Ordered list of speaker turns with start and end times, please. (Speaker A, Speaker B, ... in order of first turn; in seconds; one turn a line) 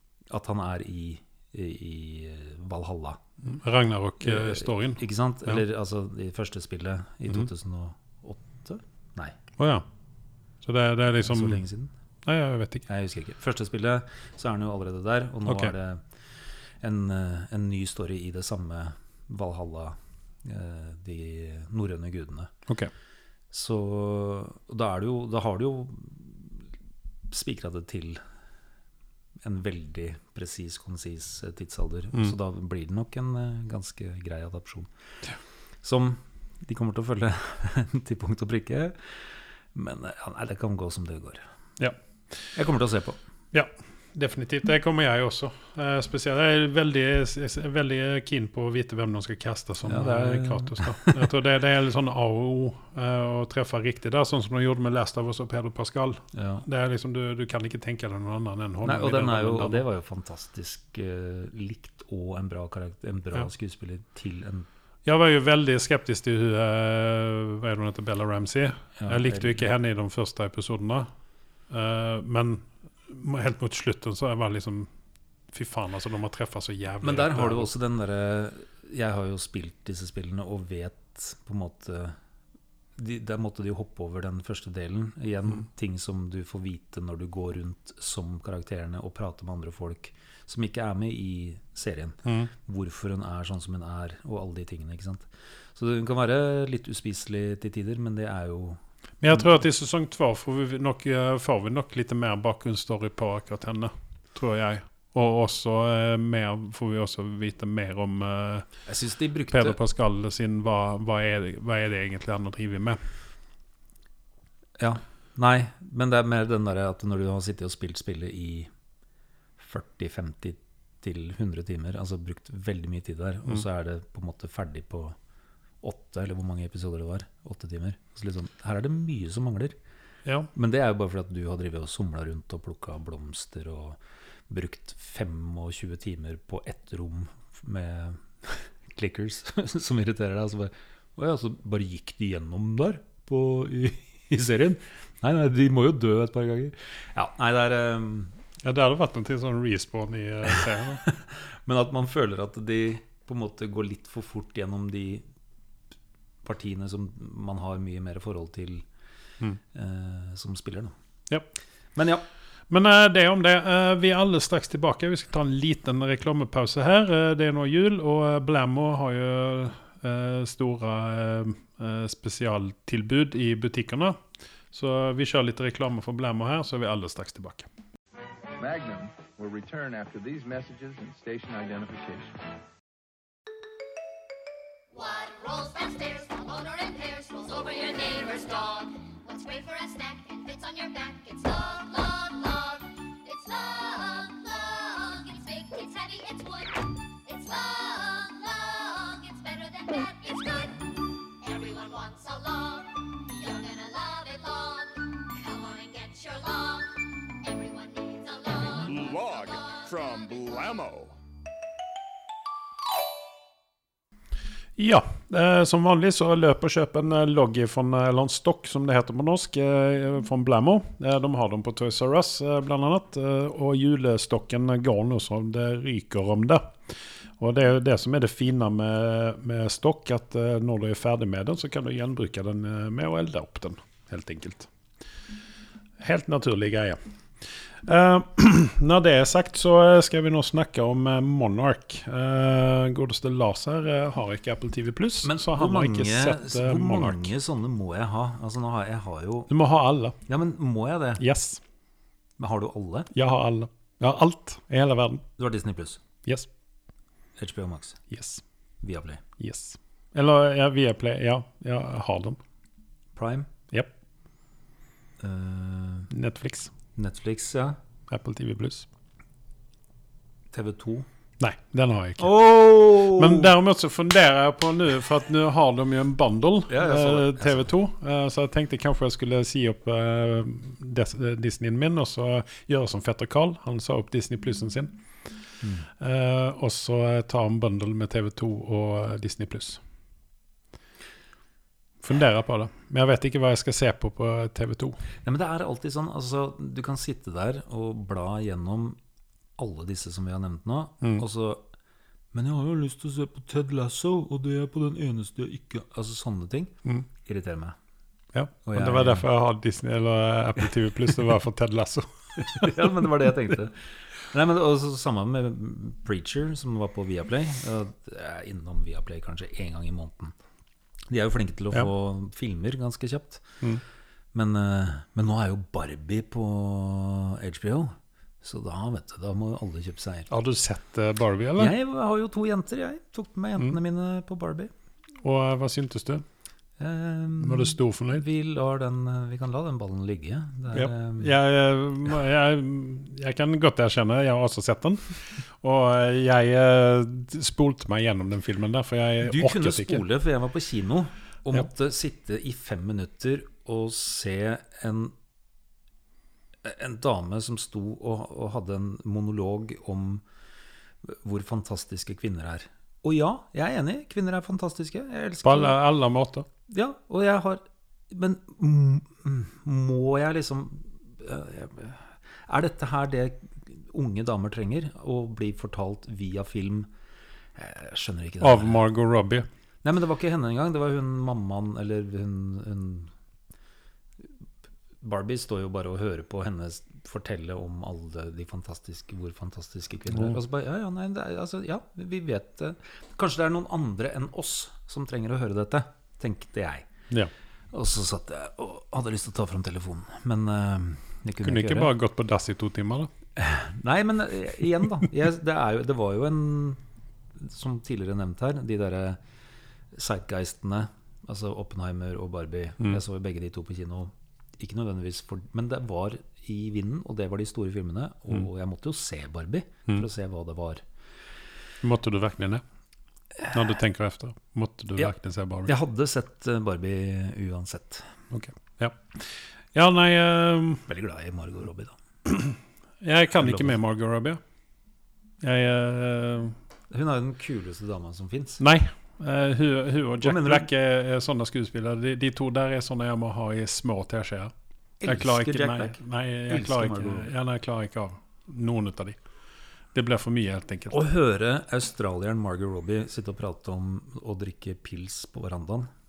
Speaker A: 0.3-3.2
Speaker B: 3.4-5.6
Speaker A: 4.2-9.3
Speaker B: 9.6-9.8
Speaker B: 10.6-11.6
Speaker A: 11.2-11.9
Speaker B: 12.2-12.8
Speaker A: 12.8-22.5
Speaker B: 15.4-15.7
Speaker A: 23.5-26.6
Speaker A: 27.3-28.2
Speaker A: 29.4-34.9
Speaker A: 35.8-41.4
Speaker A: 42.5-43.2
Speaker B: 43.5-59.8
Speaker A: 49.8-51.2
Speaker A: 56.3-56.6
Speaker A: 58.8-64.7
Speaker B: 65.0-71.1
Speaker A: 69.0-69.7
Speaker B: 71.7-74.9
Speaker B: 75.5-77.7
Speaker A: 77.0-82.2
Speaker A: 83.0-98.8
Speaker B: 99.2-108.7
Speaker A: 108.8-109.8
Speaker B: 109.5-113.0
Speaker A: 114.8-118.7
Speaker A: 119.6-125.2
Speaker A: 125.8-129.7
Speaker A: 130.5-148.4
Speaker B: 148.6-151.0
Speaker A: 151.0-155.2
Speaker A: 156.4-158.9
Speaker A: 159.7-160.9
Speaker A: 161.9-162.2
Speaker B: 162.7-174.2
Speaker B: 174.7-177.7
Speaker C: 178.6-182.4
Speaker D: 184.9-210.4
Speaker E: 208.7-211.2
Speaker B: 214.8-234.7
Speaker B: 236.0-247.3
Speaker A: 245.2-249.5
Speaker B: 249.5-250.2
Speaker A: 250.2-251.2
Speaker B: 251.2-251.6
Speaker A: 252.4-253.1
Speaker B: 253.1-255.2
Speaker A: 255.4-256.0
Speaker A: 257.4-258.0
Speaker B: 258.1-258.4
Speaker A: 258.8-259.2
Speaker B: 259.4-262.4
Speaker A: 263.1-263.5
Speaker A: 265.2-266.1
Speaker B: 266.1-266.7
Speaker A: 266.9-267.8
Speaker B: 268.1-268.9
Speaker A: 270.5-271.1
Speaker B: 271.4-272.3
Speaker A: 272.2-273.5
Speaker B: 273.0-285.0
Speaker A: 276.7-277.7
Speaker A: 285.6-285.9
Speaker B: 286.0-289.8
Speaker B: 292.0-295.0
Speaker A: 295.2-299.0
Speaker A: 299.6-301.6
Speaker A: 302.3-307.8
Speaker B: 308.3-312.9
Speaker A: 308.6-309.2
Speaker A: 312.4-320.3
Speaker A: 321.1-323.6
Speaker A: 324.3-330.3
Speaker B: 330.3-331.7
Speaker A: 331.6-334.7
Speaker B: 335.2-336.2
Speaker A: 336.8-341.3
Speaker B: 337.4-338.2
Speaker B: 340.7-350.0
Speaker A: 349.2-355.1
Speaker A: 356.6-360.2
Speaker A: 361.0-365.8
Speaker B: 365.4-366.4
Speaker A: 366.7-376.9
Speaker A: 377.6-378.8
Speaker B: 378.4-379.5
Speaker A: 379.8-383.1
Speaker A: 385.0-396.9
Speaker B: 390.1-390.4
Speaker A: 397.7-401.9
Speaker B: 401.4-403.1
Speaker A: 403.4-406.8
Speaker A: 407.4-409.2
Speaker A: 409.9-420.8
Speaker B: 421.8-422.6
Speaker B: 423.5-425.7
Speaker A: 425.6-428.2
Speaker B: 428.3-430.8
Speaker A: 430.9-432.0
Speaker B: 432.2-434.4
Speaker A: 433.4-433.7
Speaker B: 435.4-436.6
Speaker A: 436.9-438.6
Speaker B: 438.6-444.5
Speaker A: 440.2-440.7
Speaker A: 445.0-447.3
Speaker B: 445.0-449.2
Speaker B: 449.9-451.0
Speaker A: 450.9-455.9